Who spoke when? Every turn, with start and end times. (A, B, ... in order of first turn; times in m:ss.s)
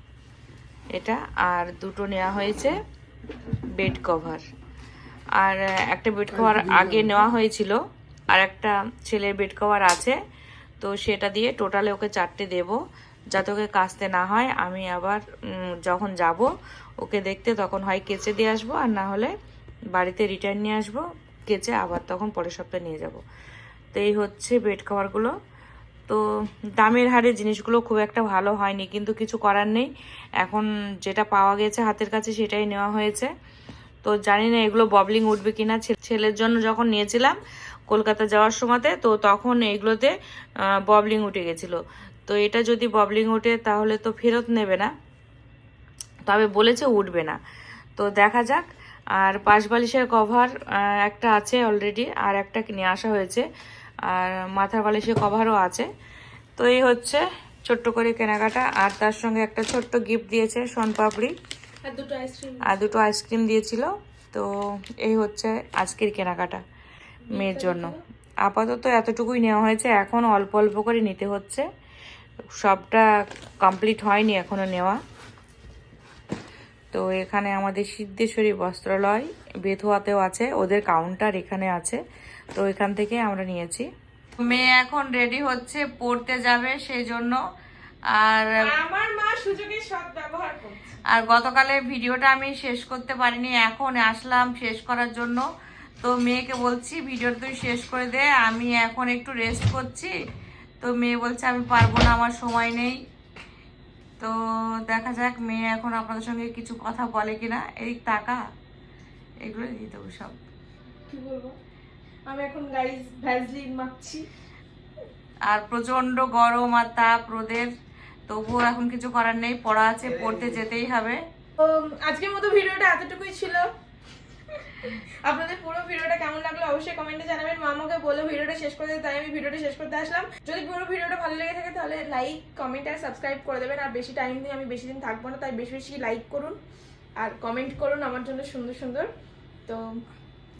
0:00.9-0:02.7 A
0:03.8-0:04.4 A
0:05.4-0:07.8 A
0:08.3-0:10.2 A
0:10.8-0:12.8 A
0:13.3-0:15.2 A
0:15.8-0:16.5 A
0:17.0-0:19.3 A
0:19.9-0:23.2 A
0:23.9-0:25.3 A
0:26.8-0:29.9 A
0:30.4-0:33.3 A
0:34.0-0:37.4 A
0:37.9-0:40.1 A
0:40.9-0:44.9 A
0:46.3-0:47.4 A
0:48.0-0:48.6 A
0:49.2-0:53.4 A
0:54.1-0:55.9 A
0:56.6-1:01.3 A
1:01.8-1:02.9 B
1:02.6-1:04.5 A
1:05.0-1:06.6 A
1:07.3-1:08.0 B
1:07.3-1:11.6 A
1:12.6-1:13.1 A
1:13.6-1:15.0 A
1:16.9-1:22.0 A
1:22.5-1:23.9 A
1:24.4-1:27.4 A
1:28.1-1:28.5 A
1:28.6-1:31.0 B
1:31.1-1:35.4 A
1:36.0-1:40.1 A
1:40.8-1:43.0 A
1:44.2-1:48.4 A
1:49.4-1:50.4 A
1:51.1-1:51.6 B
1:52.3-1:54.2 B
1:55.5-1:57.7 A
1:58.3-2:01.2 A
2:01.6-2:03.7 B
2:04.7-2:16.6 B
2:17.2-2:19.1 B